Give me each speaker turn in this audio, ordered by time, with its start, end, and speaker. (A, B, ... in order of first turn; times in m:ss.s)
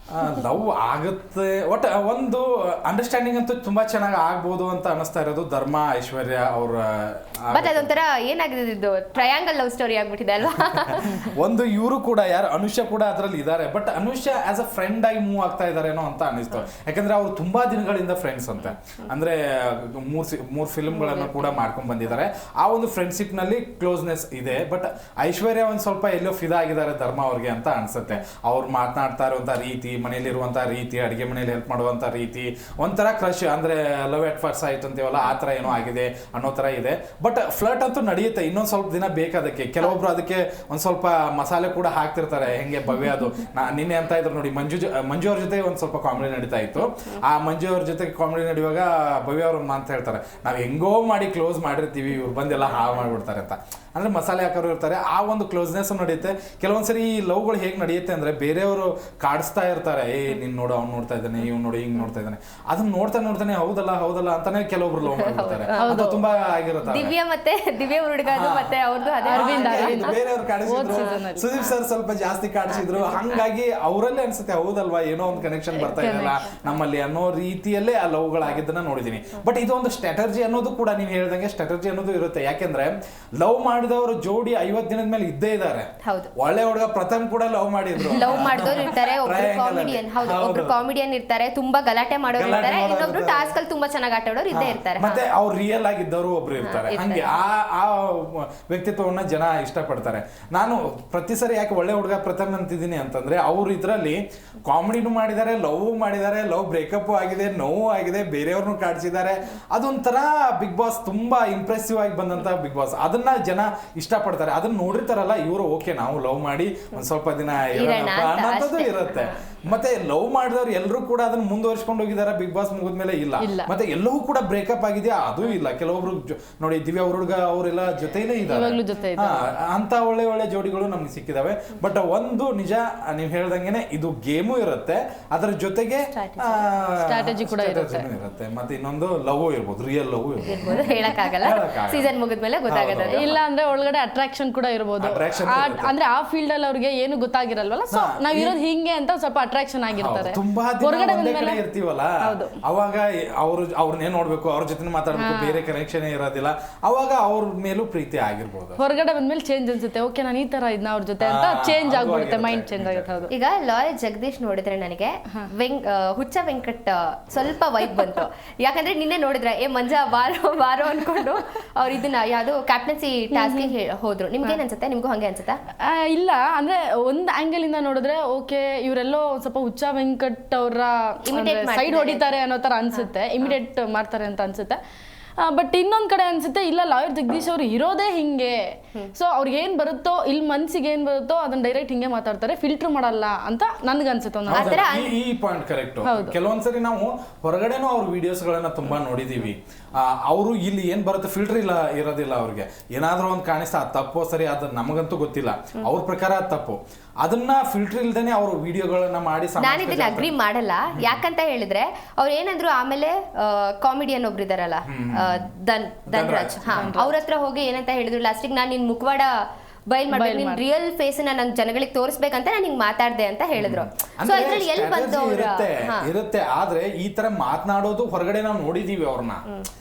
0:00.1-0:08.0 A
0:07.5-0:11.3 B
0:11.0-1:07.1 A
1:05.0-1:06.0 B
1:05.8-1:06.2 C
1:06.8-1:10.2 B
1:08.3-1:30.8 A
1:09.3-1:11.5 C
1:10.8-1:11.7 B
1:12.7-1:13.4 B
1:15.8-1:16.6 C
1:26.0-1:26.3 B
1:28.1-1:35.2 B
1:32.3-1:33.5 A
1:34.5-2:22.1 A
1:36.6-1:37.4 B
1:57.6-1:59.4 B
2:03.4-2:03.7 C
2:08.4-2:09.5 C
2:16.1-2:16.6 B
2:17.0-2:18.1 C
2:20.4-2:23.4 B
2:22.7-2:23.4 A
2:23.1-2:31.6 C
2:25.0-2:25.9 A
2:27.9-2:28.6 A
2:29.9-2:38.8 A
2:32.2-2:32.6 C
2:35.1-2:35.6 C
2:38.8-2:43.3 C
2:41.2-2:43.3 A
2:43.3-2:55.6 B
2:53.3-2:53.7 C
2:55.8-3:04.8 C
3:01.3-3:02.3 B
3:05.4-3:14.8 C
3:14.5-3:30.3 A
3:14.5-3:15.1 B
3:16.0-3:16.4 C
3:29.6-3:46.1 B
3:34.8-3:35.5 A
3:36.1-3:36.9 A
3:36.7-3:37.2 C
3:40.1-3:40.6 C
3:43.6-3:49.4 A